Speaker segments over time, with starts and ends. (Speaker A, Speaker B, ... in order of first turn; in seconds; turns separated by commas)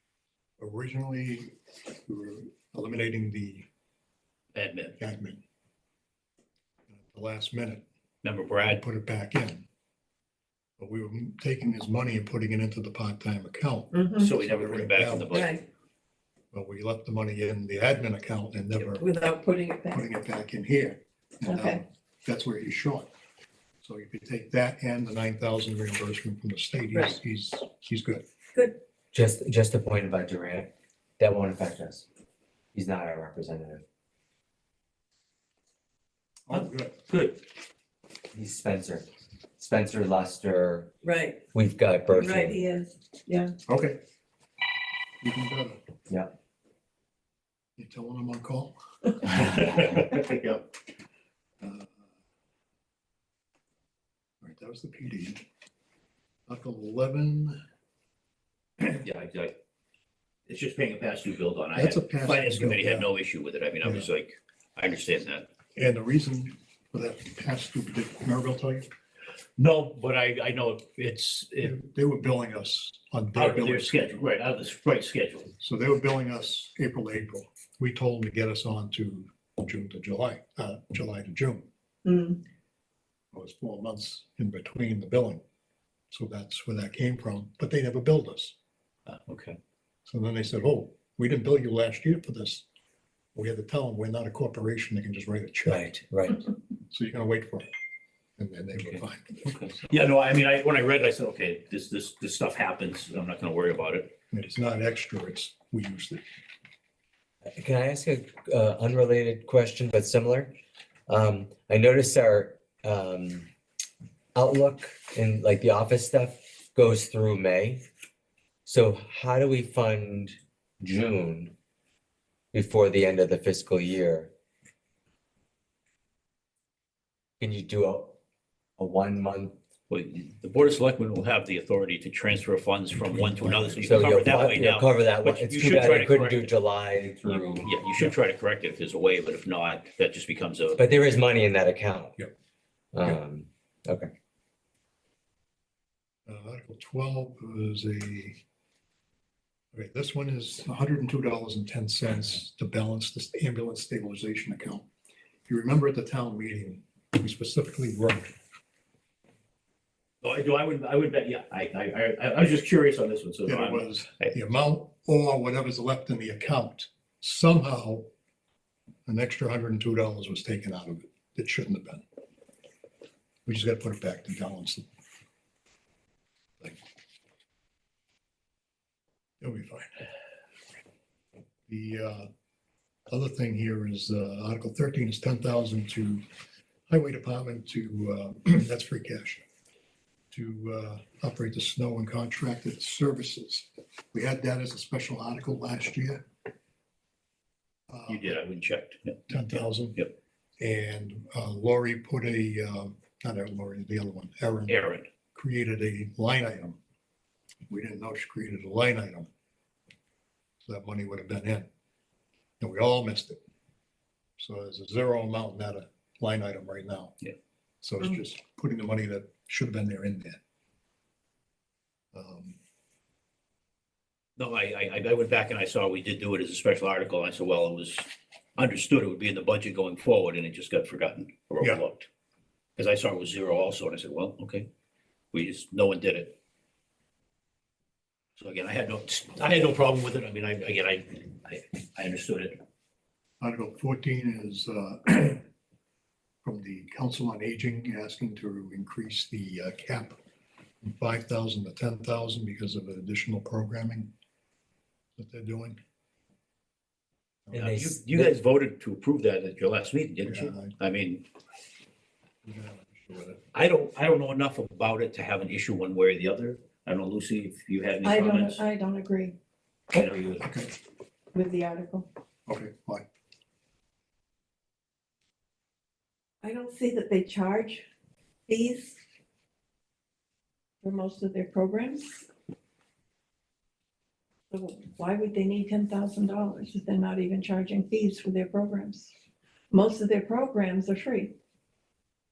Speaker A: 0.6-1.5, Speaker A: 2.1-3.7, Speaker B: 4.5-5.0, Speaker A: 5.0-5.4, Speaker A: 6.9-7.8, Speaker B: 8.2-8.8, Speaker A: 8.7-9.7, Speaker A: 10.8-15.5, Speaker C: 13.9-14.3, Speaker B: 14.2-15.6, Speaker C: 15.3-15.6, Speaker A: 16.5-19.1, Speaker C: 19.0-20.0, Speaker A: 19.9-23.1, Speaker C: 21.5-21.8, Speaker A: 23.8-28.2, Speaker D: 29.1-32.1, Speaker D: 32.7-33.8, Speaker A: 36.5-37.0, Speaker B: 36.5-37.4, Speaker D: 38.3-39.1, Speaker D: 39.6-40.9, Speaker C: 41.0-41.4, Speaker D: 41.5-42.6, Speaker C: 42.1-43.5, Speaker A: 43.7-44.0, Speaker A: 45.2-45.8, Speaker A: 47.8-49.7, Speaker B: 49.3-50.6, Speaker A: 51.6-51.9, Speaker A: 54.4-55.5, Speaker A: 56.5-57.6, Speaker B: 58.9-59.5, Speaker B: 60.5-65.5, Speaker A: 61.7-63.1, Speaker A: 63.8-64.1, Speaker A: 65.8-68.9, Speaker B: 69.6-71.7, Speaker A: 71.6-74.0, Speaker B: 73.3-75.5, Speaker A: 75.6-81.7, Speaker C: 82.0-82.4, Speaker A: 83.3-85.4, Speaker A: 86.1-88.5, Speaker B: 89.1-89.6, Speaker A: 90.1-92.7, Speaker A: 93.3-95.8, Speaker D: 95.7-96.4, Speaker A: 96.9-97.7, Speaker A: 98.4-99.9, Speaker B: 98.8-104.1, Speaker A: 104.3-106.2, Speaker D: 107.5-110.5, Speaker D: 111.1-113.5, Speaker D: 114.3-117.8, Speaker D: 118.7-121.5, Speaker D: 122.5-124.3, Speaker D: 127.4-128.2, Speaker D: 128.8-129.5, Speaker B: 129.9-136.5, Speaker A: 133.1-134.2, Speaker D: 133.8-137.7, Speaker B: 137.2-140.8, Speaker D: 140.8-142.2, Speaker D: 142.9-144.1, Speaker A: 146.3-148.4, Speaker A: 149.7-154.9, Speaker A: 155.5-158.3, Speaker B: 160.2-164.3, Speaker A: 163.4-168.1, Speaker A: 169.1-172.0, Speaker A: 173.5-174.9, Speaker A: 179.4-180.1, Speaker A: 181.7-182.3, Speaker A: 183.1-186.2, Speaker A: 186.9-189.4, Speaker A: 190.3-196.2, Speaker A: 197.9-198.3, Speaker B: 198.1-200.1, Speaker A: 199.3-200.1, Speaker A: 200.6-204.8, Speaker B: 204.7-205.1, Speaker A: 205.3-206.8, Speaker A: 207.7-209.3, Speaker A: 210.7-211.7, Speaker A: 212.6-213.4, Speaker A: 214.4-217.2, Speaker A: 217.8-220.4, Speaker A: 222.1-222.6, Speaker B: 224.4-232.1, Speaker B: 232.8-234.7, Speaker B: 235.3-236.4, Speaker B: 238.4-242.6, Speaker A: 243.4-245.5, Speaker A: 246.4-250.2, Speaker A: 250.8-254.1, Speaker A: 255.2-255.8, Speaker D: 257.5-258.3, Speaker B: 257.5-261.2, Speaker A: 260.2-260.7, Speaker A: 262.4-263.4, Speaker B: 263.5-268.6, Speaker C: 268.0-269.4, Speaker B: 269.9-270.5, Speaker A: 270.4-270.7, Speaker C: 271.3-272.1, Speaker A: 272.5-273.1, Speaker C: 276.4-277.8, Speaker C: 278.5-279.0, Speaker C: 280.8-282.3, Speaker C: 284.5-289.1, Speaker C: 289.7-291.3